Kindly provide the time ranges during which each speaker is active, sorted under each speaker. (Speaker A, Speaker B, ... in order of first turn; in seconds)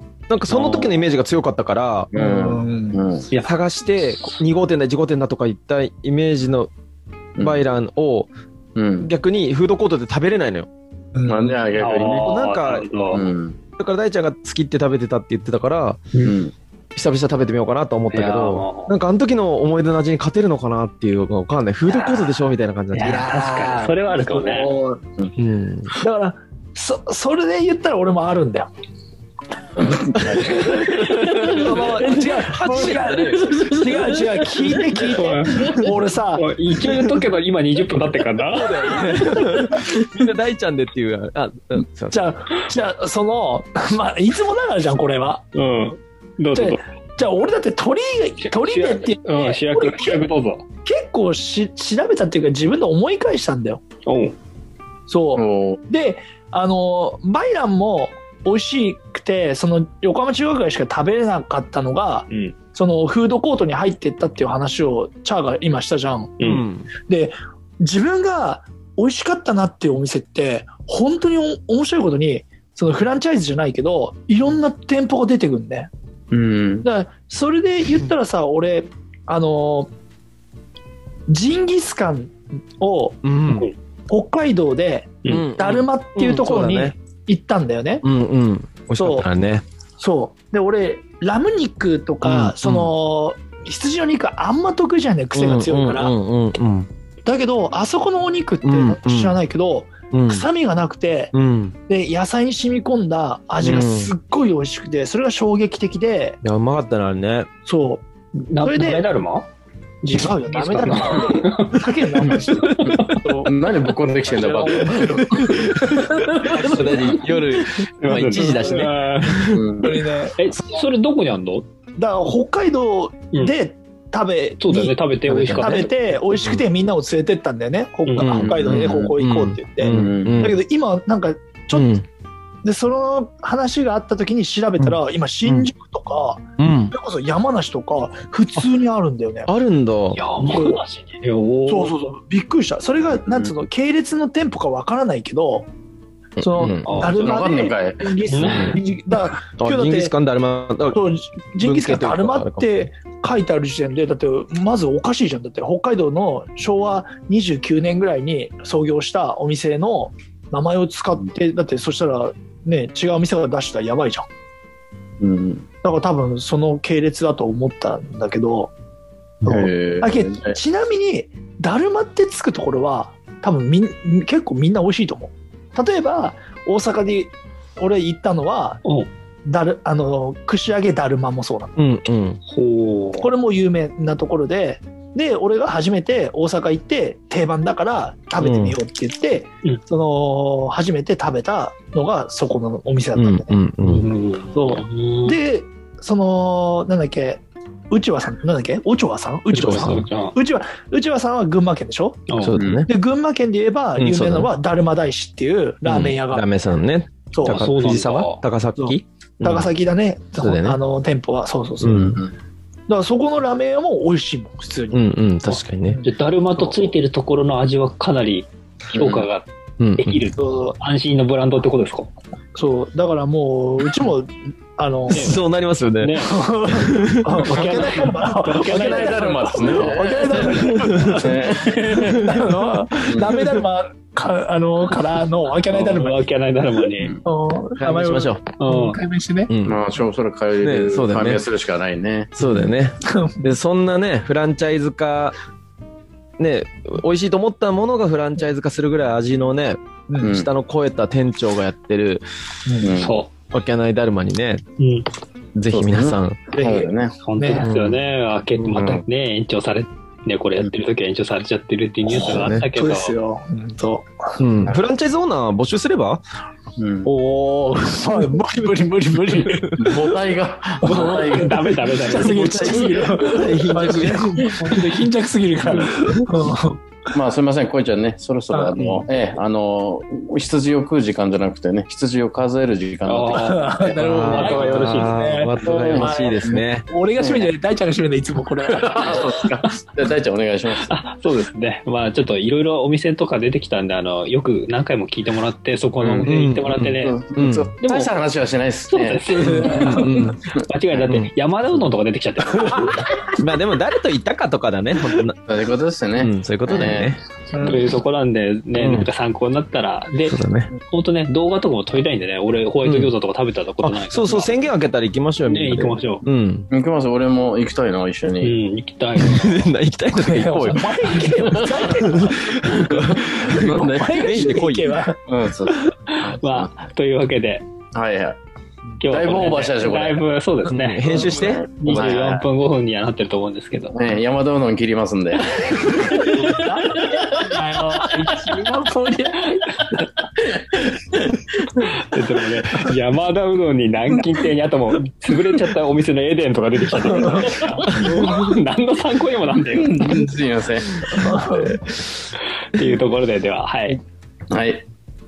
Speaker A: 0.3-2.1, 3.4-6.7, 7.4-8.3, 9.0-10.7, 12.2-12.9, 13.8-16.0, 16.9-23.4, 25.4-25.9, 31.0-34.1, 38.5-42.3, 66.4-66.9, 83.2-83.7, 85.3-87.0, 88.0-89.7, 92.2-92.9, 95.3-96.9, 98.6-99.4, 100.1-100.5, 101.3-101.8, 103.6-104.1, 106.4-107.5, 115.6-119.6, 128.2-130.6, 131.7-132.1, 134.8-135.7, 136.6-136.9, 139.5-140.2, 146.4-147.1, 148.4-148.8, 149.6-151.0, 151.6-152.7, 181.8-182.4, 188.4-188.8, 193.2-194.1, 199.5-200.1, 202.4-202.9, 204.0-204.5, 205.8-209.7, 210.4-210.8, 211.8-212.2, 214.9-216.0, 219.8-220.2, 225.1-227.4, 230.5-231.2, 232.0-232.3, 237.8-238.4, 239.5-239.8, 240.6-241.4, 242.4-245.3, 246.4-252.2, 253.5-254.6, 255.6-256.4, 257.6-258.0, 262.2-262.7, 264.4-266.2, 272.1-274.9, 275.8-276.4, 284.0-286.9, 296.2-297.7, 299.8-300.4, 303.4-305.4, 306.2-307.2, 308.8-309.1, 310.2-310.7, 312.8-313.1, 313.8-316.7, 319.2-324.9, 330.7-331.7
Speaker B: 0.5-0.9, 11.8-13.3, 18.1-18.9, 22.9-24.7, 35.1-39.0, 45.5-46.8, 48.4-50.6, 54.1-54.4, 62.3-62.5, 66.4-66.7, 108.5-109.5, 110.1-113.2, 118.0-119.6, 120.4-121.7, 124.6-125.9, 128.1-128.3, 140.2-141.9, 146.8-147.4, 148.3-148.7, 182.5-183.3, 193.8-195.4, 199.5-200.3, 202.3-202.6, 207.5-208.4, 216.1-219.5, 220.0-222.1, 225.1-225.4, 226.0-226.5, 227.4-230.0, 235.7-237.2, 238.6-239.0, 252.9-253.3, 254.8-255.1, 257.2-263.1, 270.8-272.9, 283.1-285.2, 290.8-297.3, 297.8-298.1, 298.9-303.2, 307.6-314.6, 315.5-316.2, 318.4-319.7, 326.1-327.6, 329.0-334.0, 336.1-336.7, 341.8-350.2, 352.7-354.0
Speaker C: 2.1-3.3, 8.8-9.1, 11.3-12.4, 13.1-13.6, 16.2-16.5, 29.8-30.8, 33.4-34.1, 55.4-55.8, 76.3-76.9, 113.0-120.0, 125.3-125.6, 128.4-129.1, 129.9-130.5, 147.2-148.1, 165.2-165.7, 169.4-170.6, 202.6-202.9, 211.9-212.3, 218.9-219.3, 228.6-232.4, 239.7-242.7, 250.2-250.5, 252.8-253.2, 255.7-257.2, 258.7-259.0, 266.8-267.1, 269.8-271.9, 277.1-283.9, 285.6-286.6, 287.2-287.5, 288.7-290.9, 296.0-300.0, 305.5-307.1, 316.7-318.6, 321.4-321.8, 323.5-324.5, 325.3-326.9, 327.9-328.4, 329.0-330.2, 331.5-332.5, 333.9-336.6, 349.7-351.3, 354.5-354.9
Speaker D: 2.1-3.0, 11.2-11.6, 23.0-25.0, 26.0-28.7, 30.1-36.5, 38.9-39.9, 42.1-45.4, 46.5-50.3, 50.9-53.8, 55.1-66.4, 67.1-75.9, 76.8-79.9, 81.3-83.2, 84.1-88.0, 89.0-89.3, 90.0-96.1, 97.3-101.3, 101.9-106.4, 107.7-108.1, 108.6-109.1, 110.0-113.5, 114.3-116.8, 119.8-120.4, 122.0-124.9, 125.5-132.0, 132.6-139.5, 140.5-140.8, 141.7-145.7, 146.4-150.1, 150.9-164.2, 165.8-168.7, 169.4-178.8, 179.4-181.8, 183.2-193.6, 194.5-202.3, 202.9-206.4, 207.3-207.8, 208.8-212.2, 212.9-216.2, 220.4-220.8, 222.6-225.4, 226.2-236.2, 237.2-239.5, 243.0-243.5, 250.1-250.3, 252.7-252.9, 256.5-257.7, 262.2-264.4, 267.0-270.1, 271.9-276.8, 278.5-278.8, 283.3-289.3, 299.3-300.3, 307.5-307.8, 320.2-325.9, 336.1-339.6, 347.1-347.6, 351.1-351.9